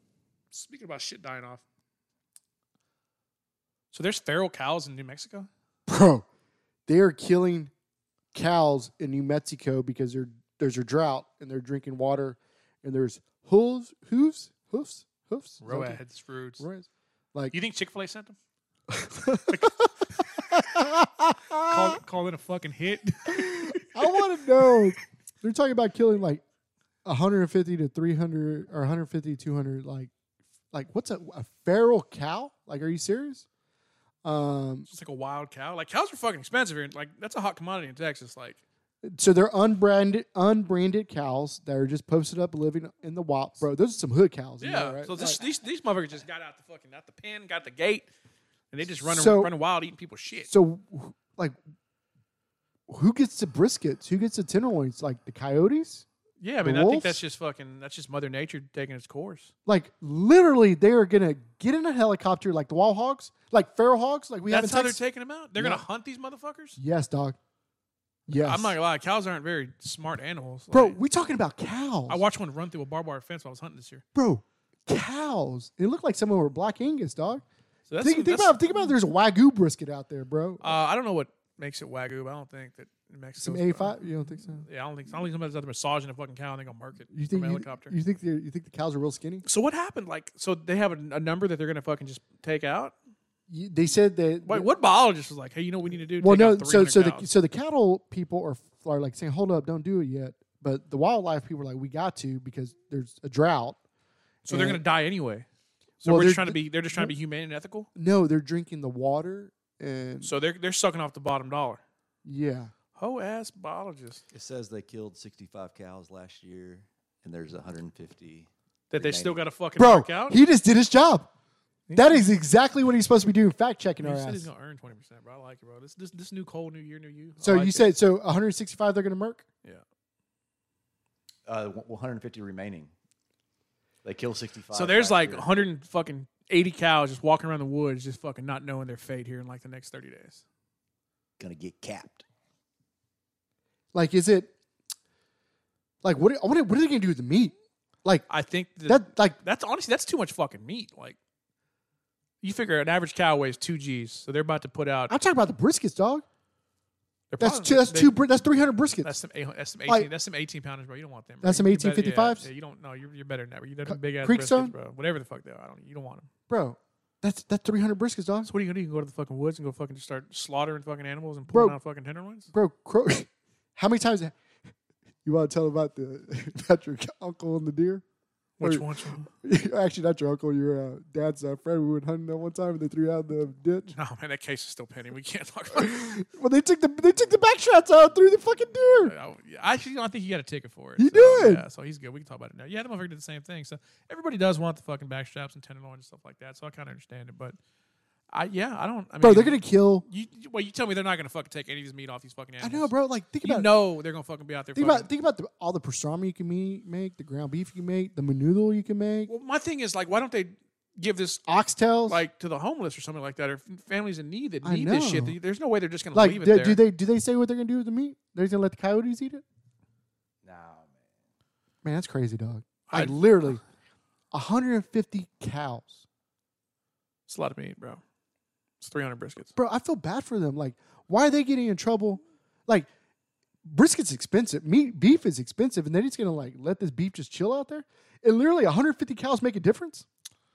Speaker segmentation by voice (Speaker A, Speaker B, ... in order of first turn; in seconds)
Speaker A: 0.5-1.6, 3.9-5.5, 15.6-16.6, 17.5-18.4, 19.5-20.3, 21.6-24.2, 34.9-38.6, 44.6-48.1, 48.7-50.5, 56.4-59.5, 64.5-66.8, 68.4-71.0, 72.1-74.0, 77.9-78.8, 80.6-84.0, 84.6-87.9, 89.4-92.9, 94.5-97.3, 104.4-105.5, 106.0-107.9, 110.2-111.8, 113.0-114.2, 118.9-120.4, 121.9-122.3, 124.0-127.9, 134.7-140.4, 148.3-151.2, 152.4-155.1, 157.3-158.2, 159.0-166.3, 168.4-172.5, 178.6-179.3, 183.9-186.0, 189.0-197.6, 198.3-202.9, 203.4-205.1, 209.3-211.4, 212.1-216.8, 222.9-223.2, 227.3-228.0, 228.8-229.5
Speaker B: 5.9-6.2, 6.9-7.7, 8.3-16.0, 16.6-17.5, 18.9-22.0, 23.3-26.4, 27.0-30.1, 30.7-33.5, 34.2-34.9, 39.0-45.4, 49.0-49.5, 50.5-51.5, 52.9-56.0, 56.6-57.2, 59.6-65.0, 65.6-65.8, 66.8-67.4, 68.3-68.8, 70.7-72.2, 74.1-77.4, 78.0-80.8, 83.4-84.6, 87.1-89.4, 93.5-94.7, 96.2-103.8, 104.5-104.8, 106.0-107.1, 108.0-110.3, 112.2-112.7, 119.8-121.3, 121.9-124.5, 127.4-129.4, 143.9-144.5, 146.0-148.2, 148.9-149.4, 155.1-156.2, 157.4-159.1, 161.4-162.5, 163.8-164.7, 166.5-168.5, 171.5-171.8, 172.5-174.3, 175.2-178.0, 178.6-178.9, 179.4-183.9, 185.7-189.1, 191.0-191.7, 199.2-200.1, 202.6-203.7, 204.8-209.3, 211.5-212.2, 214.6-215.4, 216.1-219.4, 221.8-223.6, 224.3-226.0, 229.6-232.9, 233.6-240.1
Speaker C: 114.3-119.4, 131.4-132.9, 134.0-135.6, 141.4-142.2, 220.4-221.1